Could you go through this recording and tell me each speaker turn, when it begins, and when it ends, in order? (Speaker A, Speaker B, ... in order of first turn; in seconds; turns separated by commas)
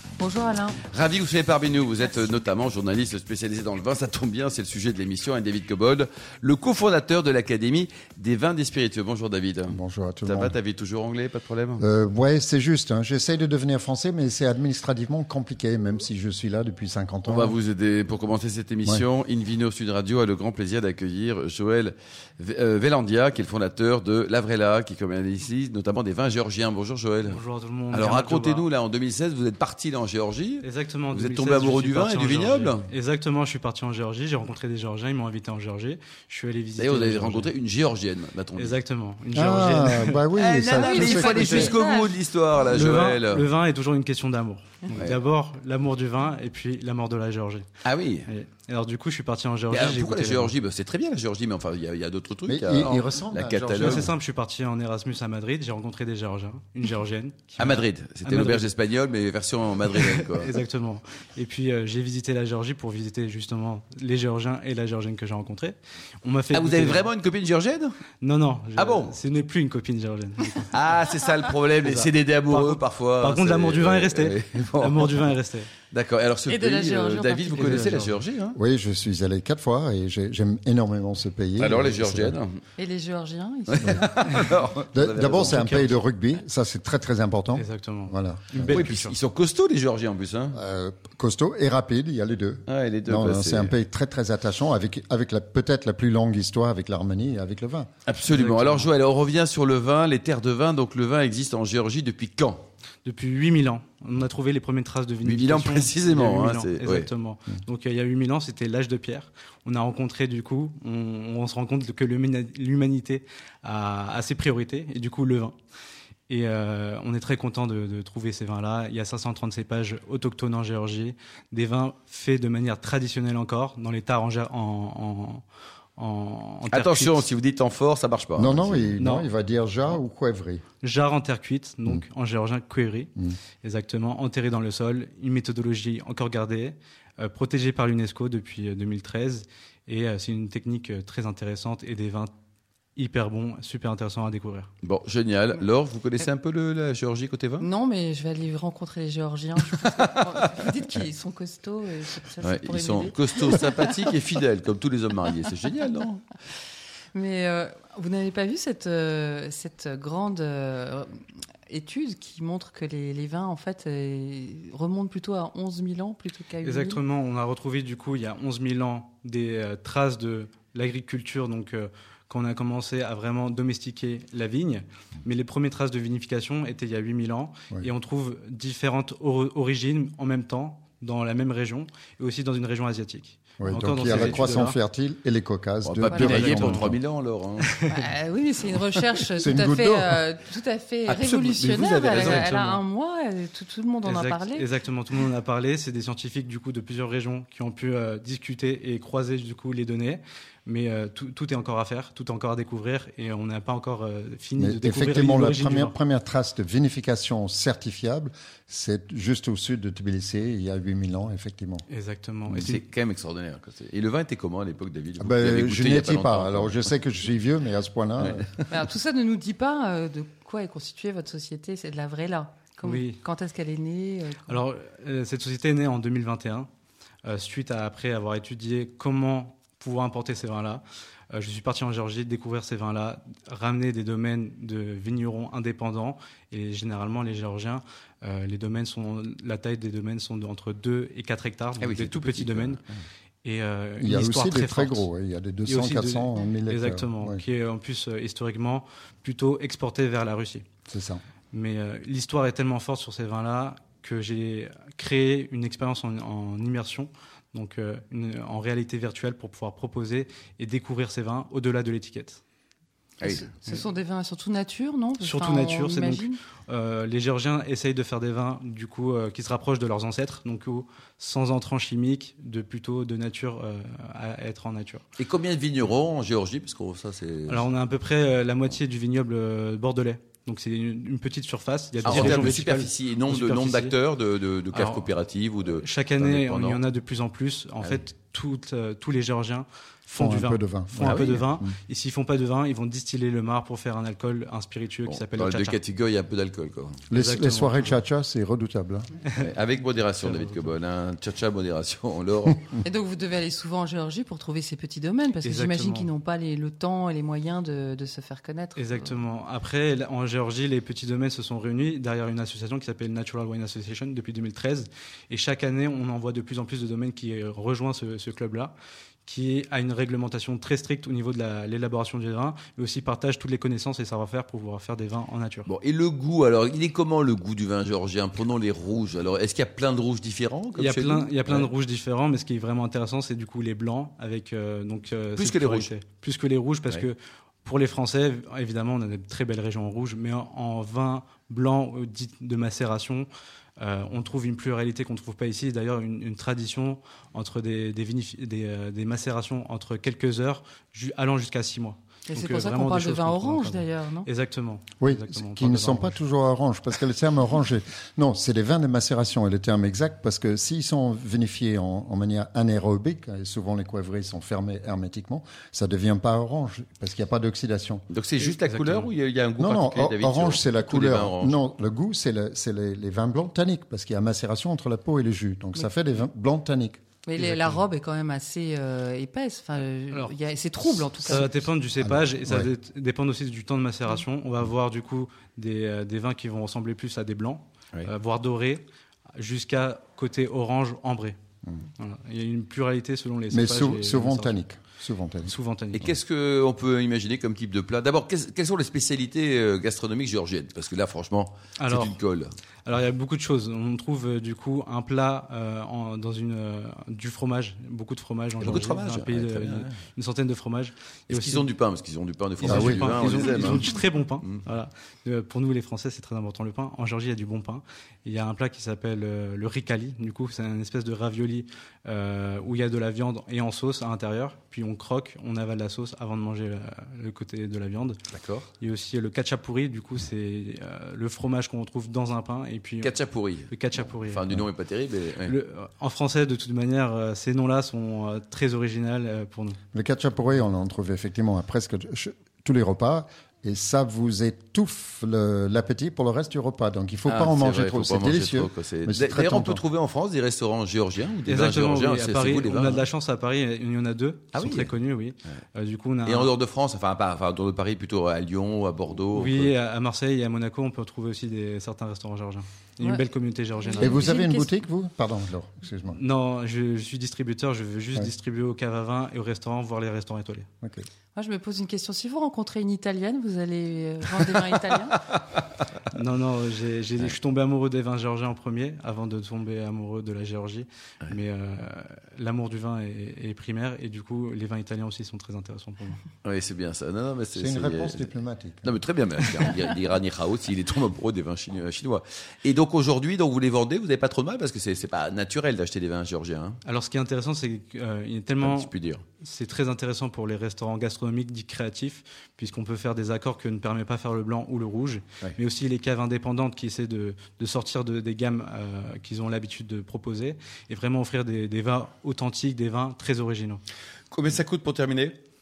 Speaker A: 0.2-0.8, Speaker B: 0.9-11.8, Speaker C: 9.7-10.6, Speaker C: 11.8-17.6, Speaker B: 17.3-27.4, Speaker D: 27.3-28.7, Speaker B: 27.9-32.8, Speaker D: 30.6-37.5, Speaker B: 36.8-38.7, Speaker D: 38.6-40.3, Speaker C: 39.3-41.8, Speaker B: 40.3-43.5, Speaker A: 40.7-42.2, Speaker D: 40.8-41.8, Speaker D: 42.7-47.7, Speaker B: 44.9-45.2, Speaker B: 47.9-48.3, Speaker D: 48.3-50.5, Speaker B: 49.7-54.1, Speaker C: 52.5-54.1, Speaker D: 53.7-58.7, Speaker B: 57.6-60.5, Speaker D: 59.9-67.1, Speaker B: 66.5-67.9, Speaker D: 68.2-70.8, Speaker B: 68.8-69.2, Speaker B: 70.7-75.3, Speaker D: 71.8-75.7, Speaker B: 75.9-78.6, Speaker A: 76.5-77.8, Speaker D: 77.6-78.2, Speaker C: 78.5-82.4, Speaker B: 81.6-82.6, Speaker A: 82.8-84.2, Speaker B: 83.7-85.8, Speaker C: 83.8-88.8, Speaker D: 84.1-84.5, Speaker D: 85.4-86.0, Speaker D: 87.6-89.2, Speaker B: 88.7-90.6, Speaker C: 90.5-97.9, Speaker B: 92.7-93.7, Speaker B: 98.1-102.7, Speaker D: 98.3-98.9, Speaker D: 103.0-115.6, Speaker B: 105.2-107.1, Speaker D: 116.3-125.4, Speaker D: 126.0-127.3, Speaker B: 126.7-128.9, Speaker C: 128.4-130.6, Speaker D: 129.0-129.3, Speaker D: 130.8-142.3, Speaker D: 143.0-144.7, Speaker B: 144.8-147.7, Speaker A: 147.6-153.8, Speaker B: 149.8-150.7, Speaker B: 152.4-156.2, Speaker A: 157.1-161.1, Speaker A: 161.7-167.0, Speaker D: 166.6-184.8, Speaker C: 183.6-187.0, Speaker B: 184.1-184.4, Speaker B: 185.8-187.8, Speaker D: 186.1-186.9, Speaker D: 187.6-188.1, Speaker A: 187.9-194.7, Speaker C: 189.4-190.2, Speaker B: 191.1-192.5, Speaker D: 192.0-192.8, Speaker D: 194.0-206.0, Speaker C: 204.6-211.8, Speaker D: 211.9-212.8, Speaker B: 212.5-216.9, Speaker C: 215.2-218.7, Speaker A: 218.7-224.6, Speaker D: 222.8-223.2, Speaker D: 224.5-226.7, Speaker D: 227.2-242.8, Speaker B: 241.8-243.0, Speaker D: 243.4-245.1, Speaker C: 244.0-247.4, Speaker D: 245.7-250.7, Speaker C: 250.9-251.2, Speaker D: 251.5-262.4, Speaker B: 263.2-263.5, Speaker A: 263.2-266.4, Speaker D: 265.2-275.0, Speaker B: 275.2-277.6, Speaker D: 277.5-283.9, Speaker B: 282.1-286.8, Speaker D: 284.7-285.1, Speaker D: 285.7-295.8, Speaker C: 290.2-291.7, Speaker B: 291.0-291.5, Speaker B: 295.1-297.1, Speaker C: 297.1-299.1, Speaker D: 297.1-297.9, Speaker B: 299.4-302.7, Speaker D: 300.1-300.7, Speaker A: 302.8-309.2, Speaker D: 305.4-306.1, Speaker D: 308.8-325.7, Speaker B: 325.7-331.7, Speaker D: 330.7-356.2, Speaker B: 335.4-335.9, Speaker A: 352.3-354.3, Speaker C: 355.0-368.1, Speaker B: 368.1-371.6, Speaker D: 368.4-369.1, Speaker C: 369.6-377.0, Speaker A: 377.3-381.8, Speaker D: 377.4-377.9, Speaker D: 380.1-388.8, Speaker C: 381.3-382.7, Speaker D: 389.4-391.4, Speaker D: 392.0-394.6, Speaker C: 393.5-395.5, Speaker D: 395.5-396.1, Speaker B: 395.9-402.5, Speaker D: 401.8-402.2, Speaker D: 402.9-411.7, Speaker B: 408.6-409.9, Speaker B: 411.3-413.9, Speaker D: 412.6-428.2, Speaker C: 412.7-413.2, Speaker B: 428.3-428.7, Speaker D: 428.8-434.7, Speaker B: 433.0-433.7, Speaker B: 434.2-435.5, Speaker D: 435.4-439.8, Speaker C: 439.9-449.8, Speaker B: 447.3-453.0, Speaker D: 451.4-456.5, Speaker B: 454.5-454.9, Speaker B: 456.2-459.7, Speaker D: 459.3-464.3, Speaker A: 463.0-463.3, Speaker A: 463.9-464.7, Speaker C: 464.0-466.2, Speaker D: 466.1-470.7, Speaker A: 471.4-475.1, Speaker D: 476.1-486.2, Speaker B: 486.4-488.3, Speaker C: 487.6-488.9, Speaker B: 488.8-496.8, Speaker D: 496.9-513.8, Speaker B: 498.6-499.2, Speaker B: 514.3-515.4